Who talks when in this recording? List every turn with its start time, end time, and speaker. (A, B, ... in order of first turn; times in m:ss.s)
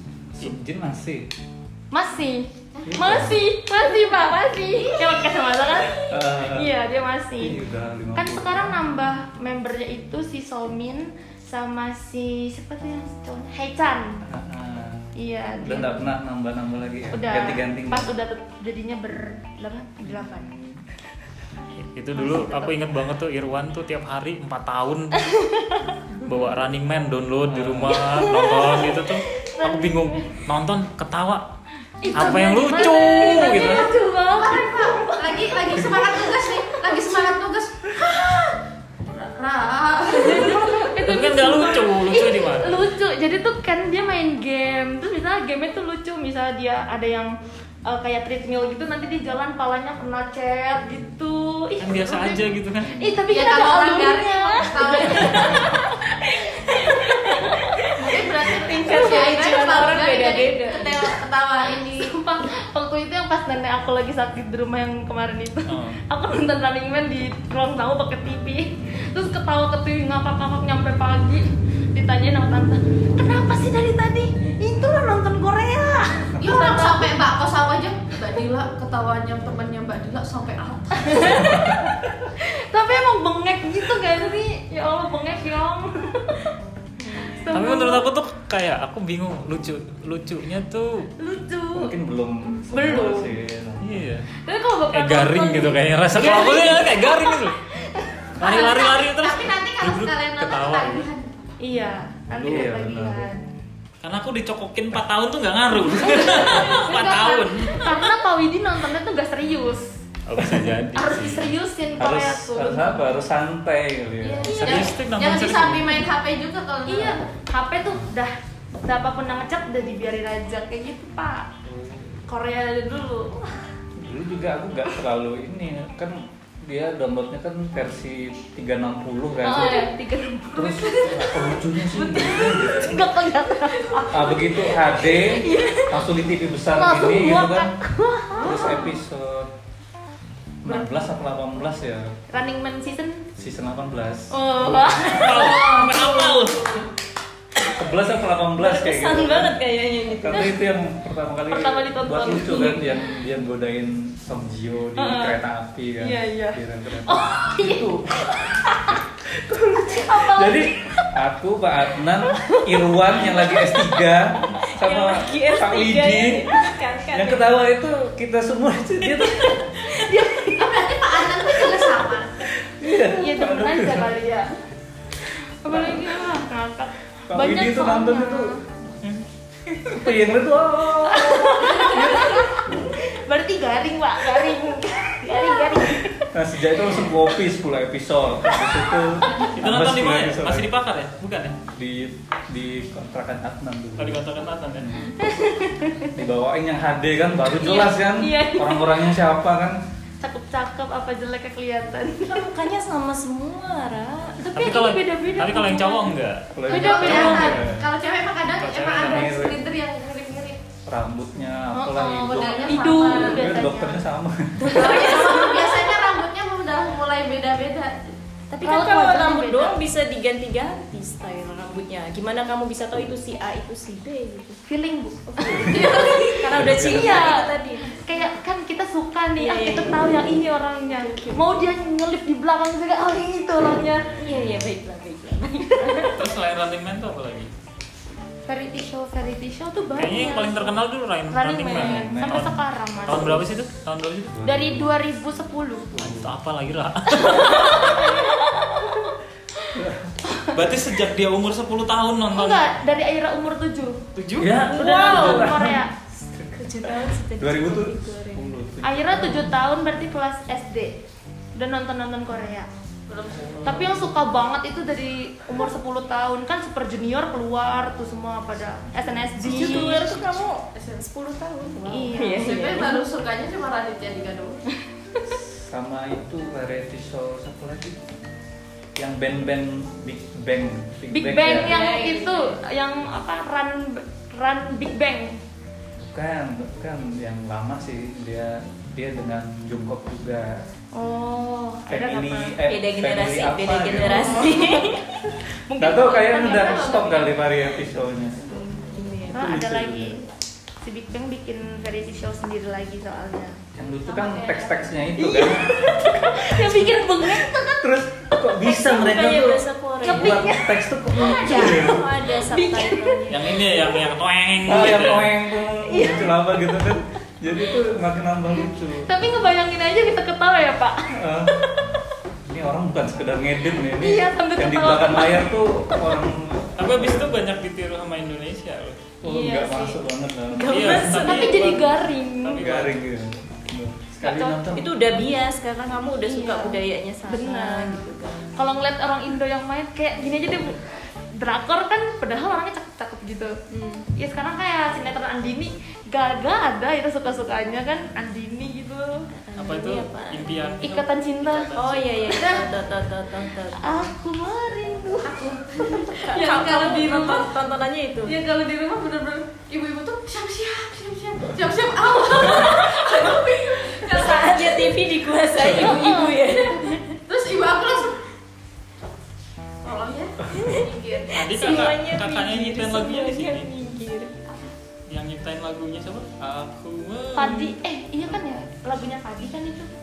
0:00.3-0:01.3 A
0:01.9-0:07.6 B
0:02.7-0:03.1 C
0:02.9-0:03.4 A
0:04.6-0:06.1 C
0:06.1-0:06.8 A
0:07.4-0:08.8 A
0:08.1-0:14.2 B
0:14.2-0:18.1 A
0:15.2-0:16.1 B
0:17.1-0:20.5 B
0:20.0-0:20.7 A
0:21.9-0:25.2 D
0:22.1-0:22.9 B
0:25.2-0:26.0 B
0:26.2-0:31.4 D
0:27.5-0:28.0 A
0:27.9-0:30.4 B
0:32.0-0:37.3 B
0:32.1-0:33.9 D
0:32.7-0:38.6 C
0:39.1-0:40.8 C
0:40.1-0:47.3 B
0:41.0-0:42.9 D
0:47.9-0:52.4 B
0:51.8-0:53.0 D
0:52.8-0:53.2 A
0:53.0-0:59.4 B
0:53.3-0:55.7 C
0:55.0-0:55.8 E
0:56.6-1:01.2 E
0:58.0-1:02.1 C
1:01.6-1:17.1 B
1:05.7-1:06.0 D
1:16.4-1:21.5 C
1:21.0-1:26.4 B
1:21.5-1:21.8 A
1:27.0-1:28.1 B
1:27.0-1:27.5 E
1:27.5-1:31.1 D
1:31.2-1:31.9 B
1:31.7-1:34.2 A
1:32.7-1:33.3 B
1:33.8-1:34.3 D
1:34.4-1:38.6 B
1:34.9-1:37.6 D
1:38.4-1:41.1 D
1:38.4-1:41.5 C
1:41.6-1:43.5 B
1:42.3-1:42.7 D
1:42.4-1:43.3 A
1:44.0-1:48.1 D
1:46.0-1:49.9 B
1:46.2-1:47.5 C
1:50.3-1:51.6 D
1:50.9-1:53.2 B
1:52.0-1:54.6 A
1:54.2-1:54.9 B
1:54.4-1:57.2 C
1:54.6-1:56.0 D
1:56.9-2:01.5 B
2:01.6-2:02.2 A
2:02.3-2:03.5 B
2:04.0-2:09.9 A
2:09.4-2:11.5 B
2:10.5-2:13.0 A
2:11.0-2:12.9 E
2:12.0-2:14.6 B
2:13.7-2:16.0 E
2:14.1-2:17.7 A
2:16.7-2:19.0 B
2:18.4-2:19.5 A
2:20.6-2:22.1 A
2:20.6-2:21.1 B
2:22.3-2:23.3 B
2:23.4-2:24.8 A
2:24.3-2:26.2 B
2:24.9-2:26.7 D
2:25.5-2:26.8 C
2:27.7-2:29.5 A
2:28.6-2:30.5 E
2:30.2-2:49.7 A
2:31.5-2:33.0 B
2:35.0-2:35.4 B
2:36.0-2:39.0 B
2:39.8-2:40.7 B
2:43.2-2:43.7 E
2:44.6-2:47.5 E
2:49.5-2:50.7 E
2:50.6-2:52.4 C
2:52.5-2:54.1 A
2:52.9-2:54.5 B
2:55.6-2:58.6 B
2:55.7-2:56.3 A
2:57.3-2:58.6 A
2:59.8-3:02.6 A
3:01.0-3:07.2 B
3:06.3-3:10.7 A
3:09.5-3:11.6 D
3:11.7-3:14.2 A
3:14.0-3:14.9 D
3:14.8-3:15.2 A
3:15.2-3:16.1 B
3:16.1-3:19.8 A
3:17.5-3:18.9 B
3:20.2-3:22.4 B
3:22.3-3:24.4 E
3:24.4-3:27.6 B
3:24.6-3:26.5 D
3:26.5-3:27.9 A
3:26.7-3:30.6 C
3:27.0-3:27.4 D
3:28.5-3:29.6 D
3:29.1-3:29.6 A
3:30.9-3:34.8 A
3:31.7-3:34.0 B
3:32.3-3:33.6 C
3:34.6-3:36.1 E
3:34.7-3:38.1 C
3:38.5-3:39.8 B
3:38.6-3:44.6 E
3:44.6-3:45.8 B
3:45.4-3:48.2 E
3:45.4-3:45.7 A
3:45.6-3:46.6 C
3:46.5-3:47.3 A
3:46.7-3:54.2 B
3:49.4-3:51.6 E
3:53.9-3:54.7 A
3:54.2-3:56.2 E
3:55.8-3:56.1 B
3:56.1-3:57.5 D
3:58.5-4:03.4 B
3:59.9-4:04.4 D
4:01.7-4:03.4 A
4:04.3-4:04.9 A
4:04.4-4:05.9 B
4:05.9-4:06.3 A
4:06.0-4:07.7 D
4:07.1-4:09.8 B
4:07.2-4:08.5 E
4:09.7-4:10.2 A
4:10.3-4:10.6 B
4:10.5-4:12.7 D
4:12.3-4:13.9 B
4:14.1-4:15.4 D
4:14.4-4:15.8 A
4:14.8-4:15.9 B
4:14.8-4:15.6 E
4:16.1-4:18.5 E
4:17.4-4:19.5 A
4:18.8-4:21.0 B
4:21.6-4:22.7 B
4:23.1-4:23.9 C
4:23.3-4:24.0 A
4:23.6-4:30.0 B
4:29.4-4:33.0 E
4:29.5-4:30.5 D
4:30.8-4:31.0 C
4:31.9-4:32.9 B
4:32.3-4:34.6 C
4:35.3-4:38.0 A
4:39.0-4:41.8 A
4:41.1-4:45.4 B
4:41.6-4:42.6 E
4:46.0-4:50.6 A
4:50.9-4:52.6 B
4:51.9-4:54.6 A
4:52.7-4:55.0 E
4:54.1-4:55.0 B
4:55.7-4:57.2 B
4:55.8-4:58.5 A
4:56.3-4:57.3 C
4:58.3-4:59.4 E
4:59.3-5:00.2 A
4:59.3-5:00.2 B
5:00.8-5:03.5 B
5:03.8-5:07.2 A
5:04.1-5:04.8 C
5:05.1-5:07.8 B
5:07.8-5:12.0 A
5:08.6-5:13.2 B
5:08.8-5:10.4 E
5:11.2-5:13.5 E
5:13.3-5:15.4 D
5:14.6-5:19.1 A
5:15.8-5:16.3 B
5:19.0-5:21.8 B
5:21.1-5:21.6 A
5:22.4-5:27.4 A
5:24.0-5:26.2 B
5:26.8-5:29.0 D
5:29.2-5:31.2 A
5:29.2-5:30.0 B
5:30.5-5:31.8 E
5:30.7-5:31.8 D
5:31.0-5:32.6 B
5:32.4-5:33.0 D
5:32.6-5:35.2 A
5:34.2-5:34.8 B
5:34.8-5:38.5 E
5:36.2-5:43.5 B
5:43.7-5:44.1 E
5:44.2-5:49.2 B
5:49.3-5:50.7 E
5:49.6-5:52.4 D
5:50.8-5:51.8 B
5:51.7-5:54.1 E
5:52.3-5:52.7 B
5:53.8-5:57.4 B
5:55.2-5:57.5 C
5:56.1-5:58.4 E
5:58.2-6:05.0 C
6:02.5-6:02.8 E
6:04.0-6:07.2 E
6:05.6-6:06.7 B
6:07.2-6:08.2 C
6:09.8-6:11.8 C
6:10.5-6:14.5 E
6:11.3-6:13.7 D
6:15.1-6:17.6 D
6:17.4-6:19.9 B
6:17.5-6:17.8 E